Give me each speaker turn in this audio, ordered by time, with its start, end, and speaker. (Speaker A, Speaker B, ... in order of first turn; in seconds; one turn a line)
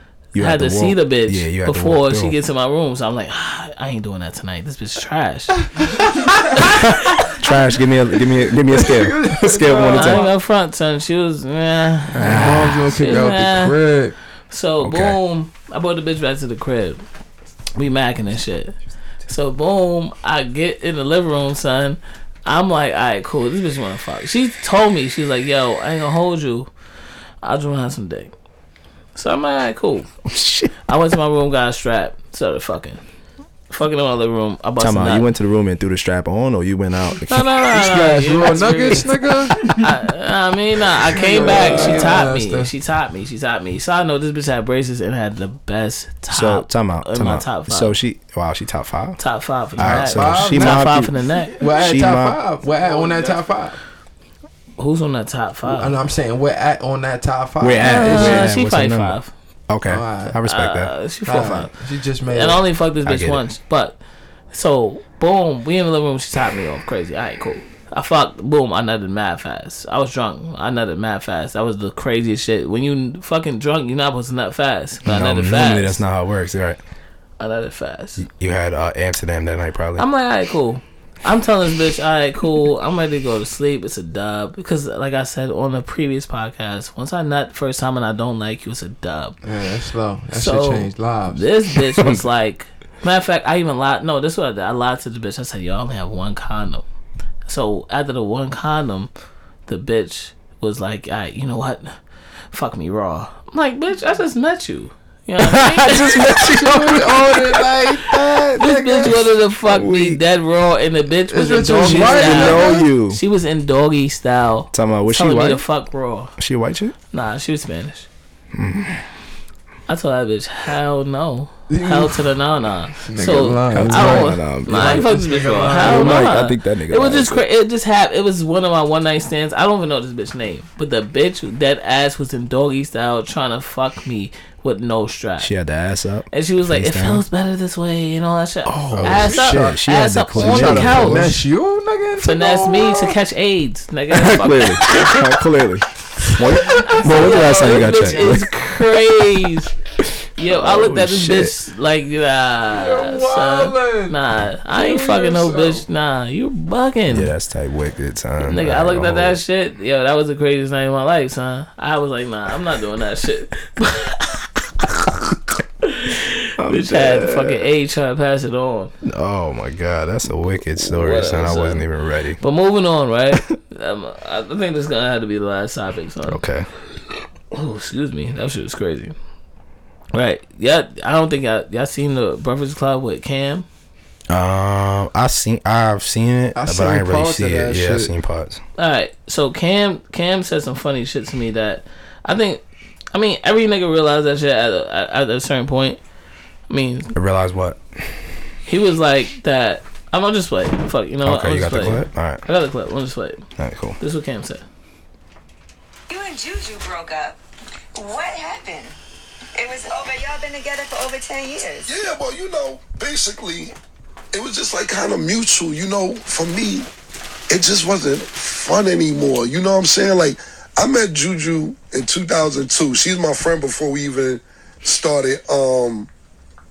Speaker A: 0.3-2.3
Speaker B: 0.4-7.2
Speaker C: 5.8-6.3
Speaker A: 6.7-10.3
Speaker C: 8.5-10.3
Speaker B: 9.9-13.8
Speaker A: 12.1-13.0
Speaker C: 12.2-14.2
Speaker B: 14.5-17.0
Speaker A: 14.8-15.2
Speaker B: 17.7-18.7
Speaker B: 19.3-26.7
Speaker B: 27.4-28.3
Speaker B: 29.1-30.1
Speaker A: 30.3-30.8
Speaker B: 30.9-33.0
Speaker B: 33.7-35.3
Speaker A: 34.8-37.7
Speaker B: 37.3-47.9
Speaker C: 37.7-39.8
Speaker C: 41.0-42.7
Speaker A: 41.4-41.9
Speaker A: 46.3-49.2
Speaker B: 49.2-51.6
Speaker C: 49.8-50.9
Speaker A: 49.8-51.1
Speaker C: 51.5-53.8
Speaker A: 51.7-52.4
Speaker B: 54.8-55.9
Speaker C: 55.6-58.5
Speaker A: 57.6-60.9
Speaker B: 57.8-59.3
Speaker C: 59.9-60.4
Speaker B: 60.5-61.7
Speaker C: 61.2-62.6
Speaker B: 62.2-64.0
Speaker A: 63.0-63.4
Speaker B: 64.5-76.0
Speaker A: 75.0-76.8
Speaker B: 77.4-78.2
Speaker A: 78.2-80.0
Speaker B: 80.0-89.4
Speaker C: 89.4-91.5
Speaker B: 90.3-96.8
Speaker A: 91.9-92.2
Speaker B: 97.5-99.1
Speaker B: 99.7-102.0
Speaker B: 102.5-106.4
Speaker A: 105.4-107.7
Speaker C: 106.4-109.3
Speaker B: 108.5-116.3
Speaker A: 109.7-110.2
Speaker C: 111.3-112.9
Speaker A: 111.8-113.2
Speaker A: 114.7-115.6
Speaker A: 116.4-116.9
Speaker B: 117.1-118.1
Speaker A: 118.5-119.0
Speaker B: 119.9-135.5
Speaker C: 121.7-122.3
Speaker C: 123.0-126.3
Speaker A: 123.7-127.4
Speaker A: 135.4-137.2
Speaker B: 136.3-141.4
Speaker A: 138.7-141.4
Speaker C: 138.9-139.8
Speaker C: 140.3-143.2
Speaker B: 142.2-145.3
Speaker A: 144.1-148.5
Speaker B: 146.5-149.7
Speaker C: 146.6-148.4
Speaker B: 150.4-157.3
Speaker A: 150.4-151.6
Speaker C: 152.7-155.9
Speaker A: 157.1-159.4
Speaker B: 158.4-168.9
Speaker A: 166.6-167.6
Speaker A: 169.0-172.4
Speaker B: 170.8-171.9
Speaker B: 172.4-176.4
Speaker A: 176.3-176.7
Speaker B: 177.5-179.1
Speaker B: 180.1-183.6
Speaker A: 184.3-188.6
Speaker C: 186.6-188.1
Speaker B: 188.8-192.6
Speaker B: 193.1-196.0
Speaker B: 196.7-197.1
Speaker A: 197.1-197.8
Speaker B: 198.7-203.4
Speaker A: 201.2-202.4
Speaker A: 203.6-204.0
Speaker B: 204.0-204.6
Speaker D: 206.1-207.4
Speaker D: 207.9-208.9
Speaker D: 209.6-211.9
Speaker E: 211.9-213.7
Speaker E: 214.3-216.9
Speaker E: 217.5-226.1